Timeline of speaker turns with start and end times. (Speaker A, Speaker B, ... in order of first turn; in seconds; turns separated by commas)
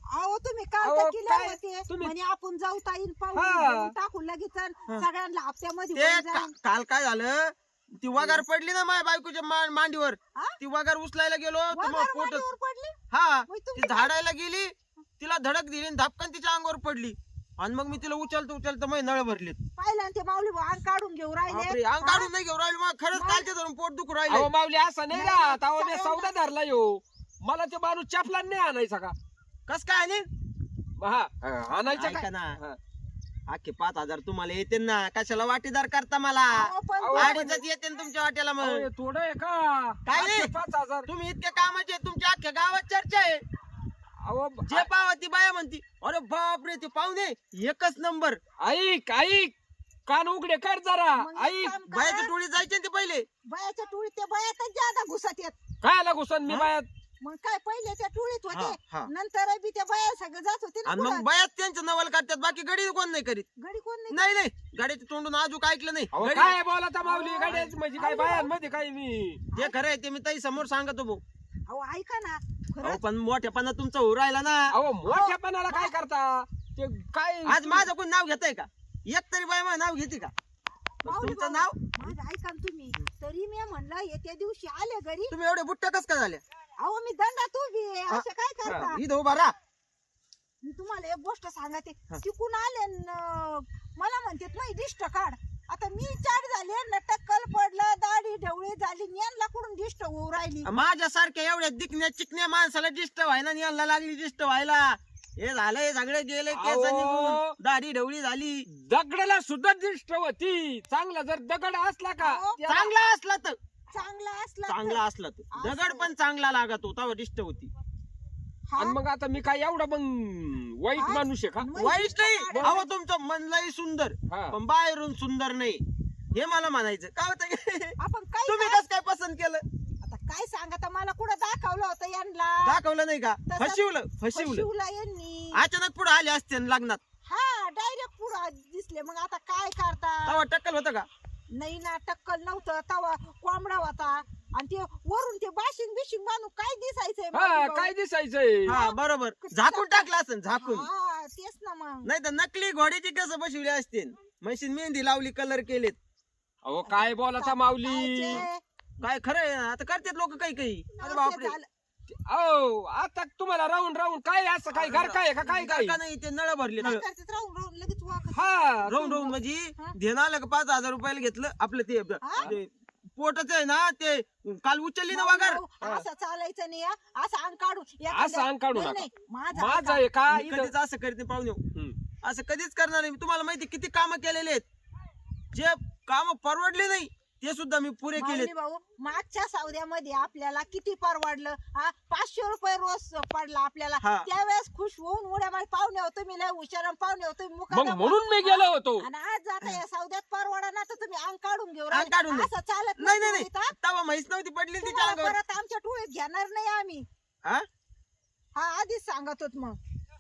Speaker A: 0.1-6.5, Speaker B: 0.8-2.1, Speaker B: 3.3-3.9, Speaker C: 5.9-12.5, Speaker A: 11.7-12.9, Speaker C: 13.1-19.6, Speaker A: 13.5-14.1, Speaker A: 19.8-22.3, Speaker C: 21.5-24.5, Speaker A: 23.1-23.4, Speaker B: 24.3-29.1, Speaker A: 25.1-26.3, Speaker C: 29.7-30.3, Speaker B: 31.0-32.8, Speaker C: 31.9-32.6, Speaker C: 33.5-38.9, Speaker A: 36.5-37.6, Speaker B: 37.0-37.4, Speaker B: 38.6-41.1, Speaker C: 40.0-40.5, Speaker C: 41.1-43.4, Speaker B: 44.2-44.9, Speaker C: 44.6-48.4, Speaker B: 48.6-49.5, Speaker B: 50.1-51.8, Speaker A: 51.2-52.3, Speaker C: 51.9-53.2, Speaker A: 53.5-55.6, Speaker B: 55.8-56.9, Speaker A: 57.2-61.2, Speaker C: 58.5-59.1, Speaker C: 60.8-63.5, Speaker A: 63.6-64.3, Speaker C: 64.1-66.5, Speaker B: 66.2-69.4, Speaker A: 66.2-68.5, Speaker C: 69.5-71.2, Speaker A: 71.7-73.0, Speaker C: 72.8-74.7, Speaker B: 74.7-77.9, Speaker A: 75.0-75.9, Speaker C: 77.5-80.3, Speaker C: 81.0-82.1, Speaker A: 81.0-85.3, Speaker C: 85.3-86.4, Speaker A: 86.8-89.0, Speaker C: 88.1-89.5, Speaker A: 90.6-100.7, Speaker C: 100.6-108.7, Speaker B: 106.5-107.5, Speaker B: 108.7-112.9, Speaker A: 112.2-112.6, Speaker C: 112.7-113.6, Speaker A: 113.9-115.0, Speaker C: 114.7-117.7, Speaker A: 115.5-116.1, Speaker A: 118.7-119.0, Speaker B: 118.8-121.7, Speaker A: 121.0-122.9, Speaker C: 121.8-125.8, Speaker B: 124.3-124.5, Speaker C: 126.3-129.6, Speaker A: 128.0-128.8, Speaker A: 130.0-132.8, Speaker C: 132.6-134.7, Speaker A: 133.5-135.6, Speaker C: 135.5-137.0, Speaker A: 137.2-140.4, Speaker C: 140.2-141.1, Speaker A: 141.5-147.9, Speaker B: 147.3-148.7, Speaker C: 148.7-150.9, Speaker A: 148.7-152.1, Speaker C: 152.0-155.9, Speaker B: 156.6-158.4, Speaker A: 156.9-158.6, Speaker C: 159.0-161.6, Speaker A: 161.0-161.7, Speaker B: 162.1-165.9, Speaker C: 164.7-167.0, Speaker A: 166.8-169.9, Speaker B: 168.3-168.9, Speaker C: 168.8-176.1, Speaker A: 172.2-172.5, Speaker A: 175.1-180.0, Speaker B: 178.1-180.7, Speaker C: 180.3-181.6, Speaker C: 182.2-184.6, Speaker C: 185.5-188.5, Speaker A: 188.2-203.7, Speaker C: 194.0-194.3, Speaker B: 197.7-199.1, Speaker C: 201.9-205.4, Speaker A: 204.8-207.0, Speaker A: 208.5-209.8